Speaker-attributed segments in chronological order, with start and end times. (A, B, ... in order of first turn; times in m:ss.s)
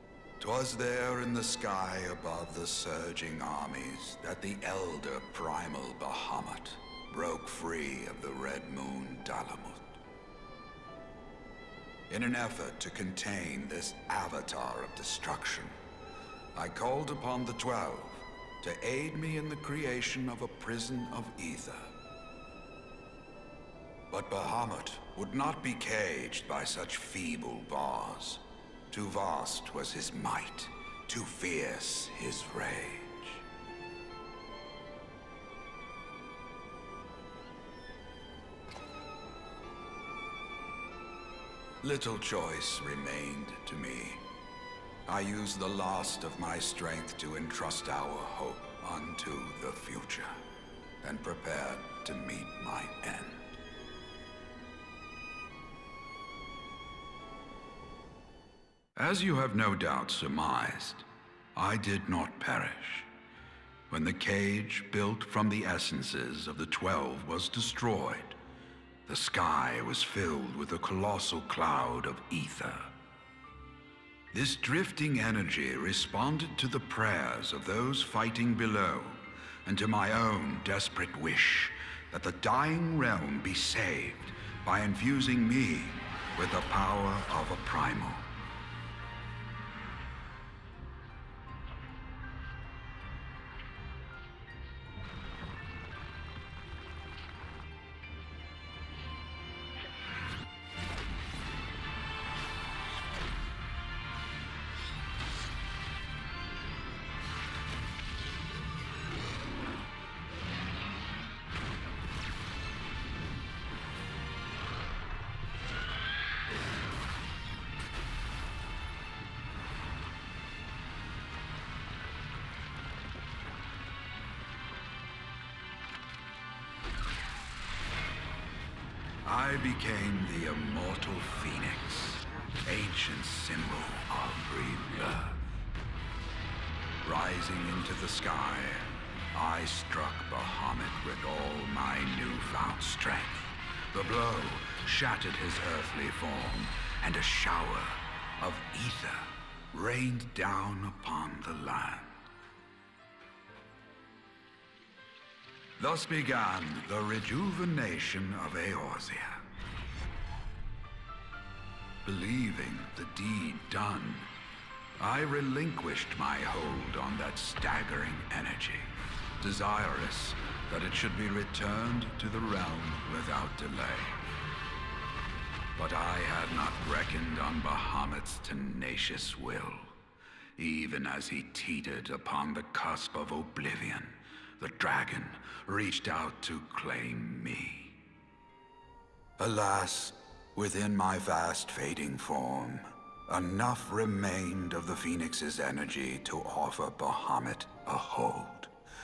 0:00.4-0:10.0 A
0:12.1-0:15.7 A
0:16.6-0:21.9 A
0:24.1-0:33.4 A
0:41.8-0:44.2 A
0:45.1-0:50.4 A
0:51.0-0:53.6 A
0:59.0-1:03.1 A
1:03.9-1:08.4 A
1:09.1-1:12.9 A
1:14.3-1:28.3 A
2:09.2-2:15.4 A
2:17.0-2:32.3 A
2:35.8-2:39.4 A
2:42.0-2:44.3 A
2:45.0-2:54.2 A
2:55.8-3:00.0 A
3:00.6-3:08.0 A
3:09.4-3:18.7 A